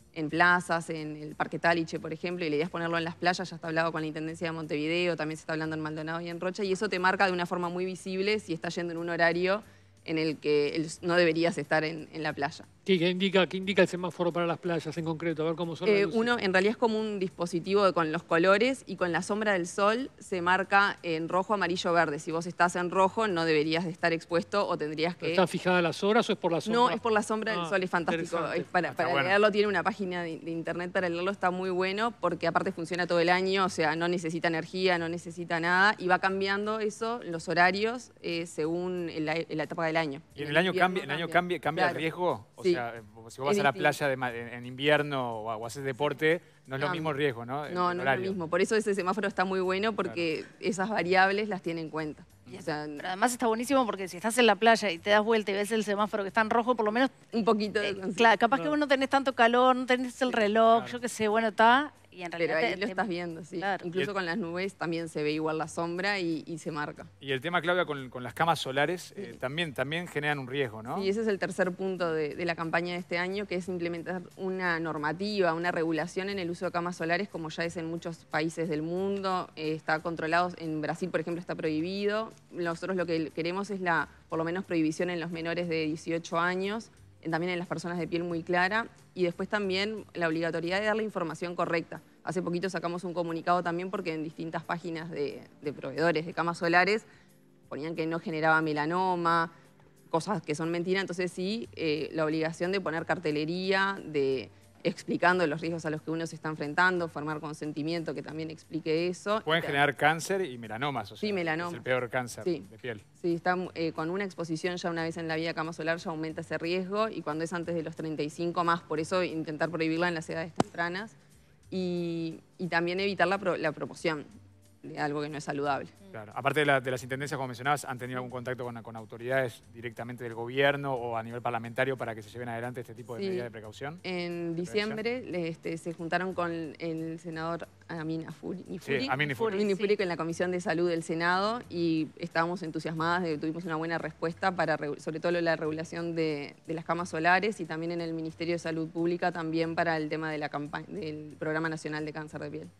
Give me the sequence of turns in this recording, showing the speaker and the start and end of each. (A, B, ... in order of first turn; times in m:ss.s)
0:00.1-0:12.7 A
0:12.8-0:16.2 B
0:15.8-0:25.4 A
0:25.3-0:26.8 B
0:26.7-0:42.1 A
0:27.7-0:28.4 B
0:28.8-0:29.4 C
0:40.4-0:48.4 C
0:43.4-0:44.0 A
0:46.8-0:53.1 A
0:52.5-0:57.1 D
0:57.3-0:58.4 A
0:57.8-1:03.0 D
1:02.4-1:07.1 A
1:03.6-1:03.9 D
1:07.2-1:11.1 C
1:10.9-1:37.0 A
1:37.7-1:39.5 A
1:40.1-1:49.8 A
1:49.4-1:53.0 C
1:51.2-1:51.8 A
1:52.4-2:01.2 A
2:01.7-2:04.3 A
2:04.8-2:06.0 A
2:06.1-2:14.0 C
2:13.1-2:13.5 A
2:14.0-2:32.7 A
2:14.6-2:15.0 C
2:18.8-2:19.6 C
2:19.0-2:20.0 D